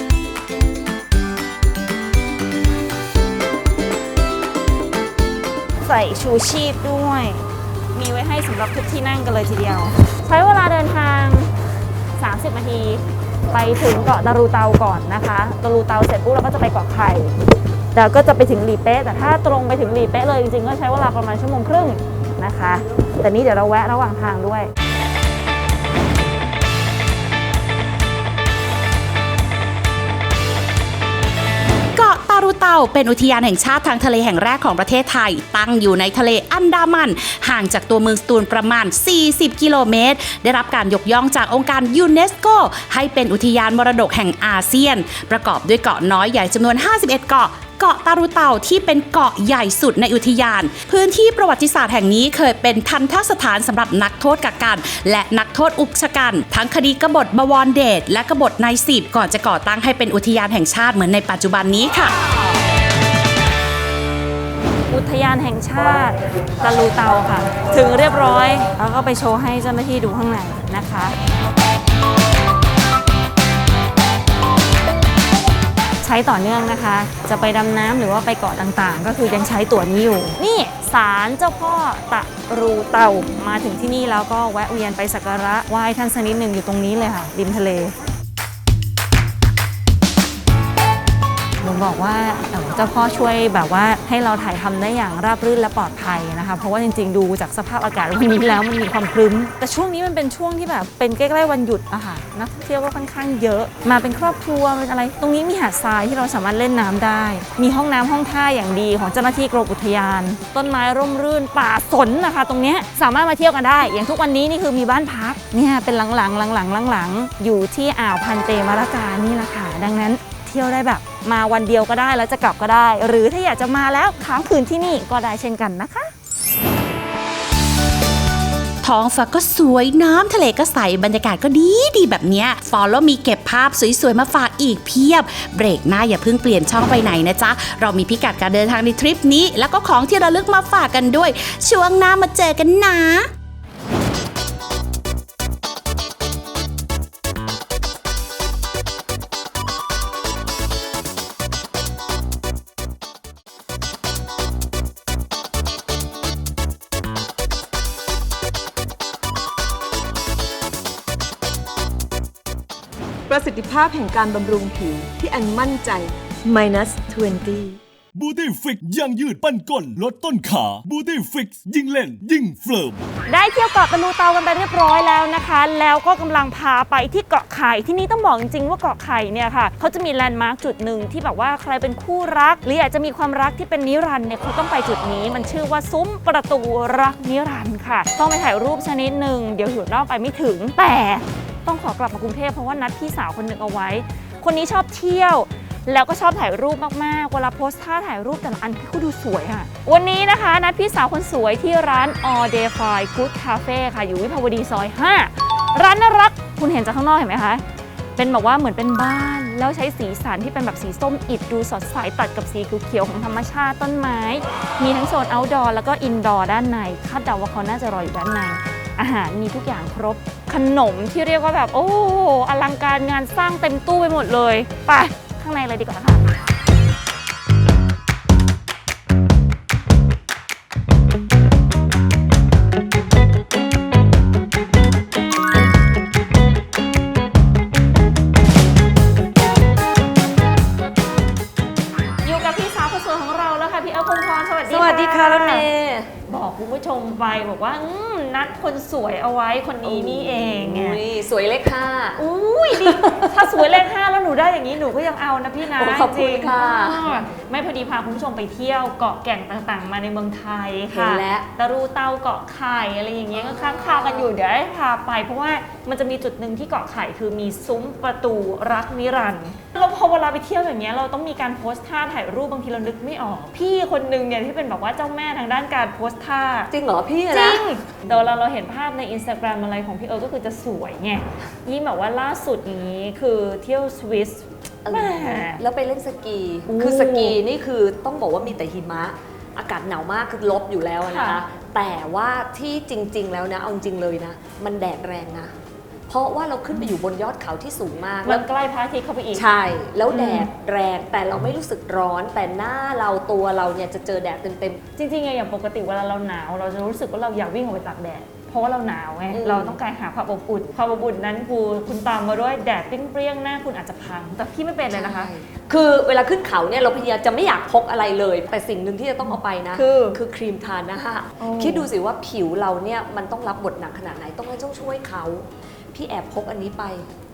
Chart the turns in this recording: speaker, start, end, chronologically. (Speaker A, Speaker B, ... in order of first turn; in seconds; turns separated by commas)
Speaker A: 5.8-11.5, Speaker A: 12.2-17.4, Speaker A: 17.9-24.7, Speaker B: 31.9-62.1, Speaker A: 64.9-71.2, Speaker A: 76.0-87.9, Speaker A: 91.6-126.1, Speaker B: 128.8-143.3, Speaker C: 163.3-167.8, Speaker D: 168.1-173.0, Speaker A: 173.3-207.6, Speaker A: 208.2-226.2, Speaker A: 242.2-245.7, Speaker E: 244.7-246.1, Speaker A: 246.3-251.0, Speaker E: 249.8-252.2, Speaker A: 252.2-276.7, Speaker E: 252.7-253.8, Speaker E: 255.7-257.1, Speaker E: 260.9-261.5, Speaker E: 263.4-264.3, Speaker E: 276.7-277.6, Speaker A: 277.3-285.6, Speaker E: 284.8-295.5, Speaker A: 286.7-287.4, Speaker A: 291.1-291.4, Speaker E: 296.1-298.4, Speaker A: 298.2-299.4, Speaker E: 299.3-304.8, Speaker A: 300.1-300.5, Speaker A: 305.0-315.3, Speaker E: 309.3-309.8, Speaker E: 314.9-327.1, Speaker A: 319.7-320.2, Speaker A: 321.4-321.9